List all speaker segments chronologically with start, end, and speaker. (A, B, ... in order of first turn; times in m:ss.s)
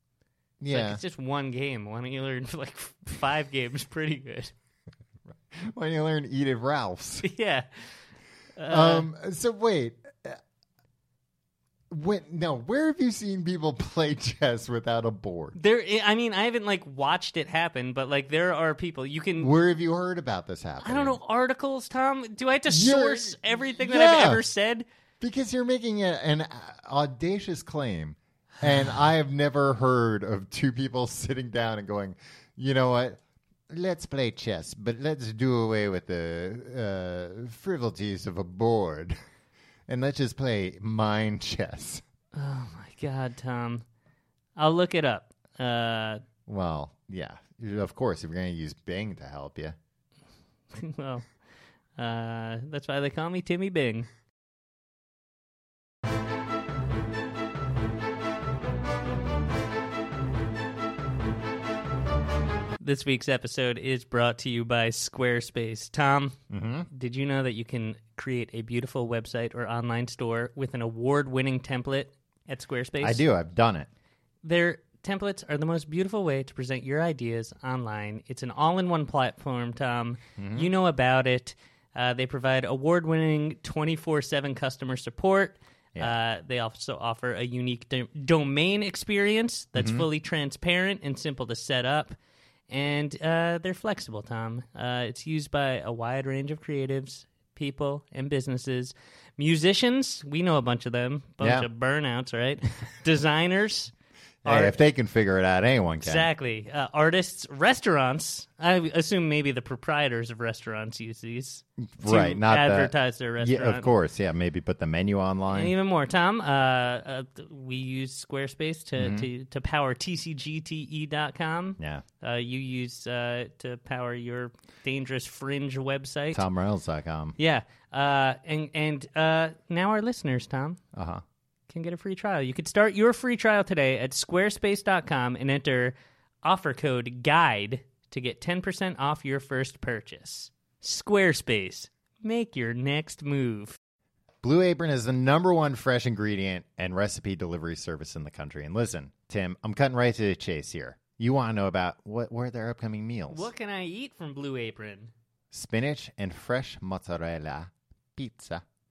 0:00.6-0:01.0 A
0:00.7-0:04.5 B
0:05.3-0:07.3 A
0:07.2-0:07.9 B
0:08.6-0:09.1 B
0:08.7-0:10.4 A
0:11.9-0:15.6 A
0:15.6-0:19.5 B
0:19.4-0:21.2 A
0:20.8-0:24.9 B
0:22.7-0:24.4 A
0:25.2-0:39.2 A
0:39.9-0:42.0 A
0:42.4-0:43.8 B
0:44.6-0:46.2 B
0:46.5-0:49.8 A
0:50.7-0:51.3 B
0:52.0-0:54.1 B
1:02.8-1:06.4 B
1:06.5-1:06.9 A
1:06.9-1:13.2 B
1:13.0-1:13.9 A
1:14.4-1:32.2 B
1:20.4-1:20.7 A
1:29.8-1:30.1 A
1:32.7-1:43.9 B
1:41.4-1:41.7 A
1:44.4-1:44.8 B
1:44.4-1:46.3 A
1:46.0-1:53.9 B
1:52.0-1:55.7 A
1:55.5-2:06.4 B
1:59.0-1:59.3 A
2:01.8-2:02.0 A
2:06.3-2:07.4 A
2:07.4-2:10.8 B
2:10.9-2:11.2 A
2:11.7-2:23.8 B
2:24.4-2:33.5 A
2:33.3-2:35.1 B
2:35.5-2:38.6 A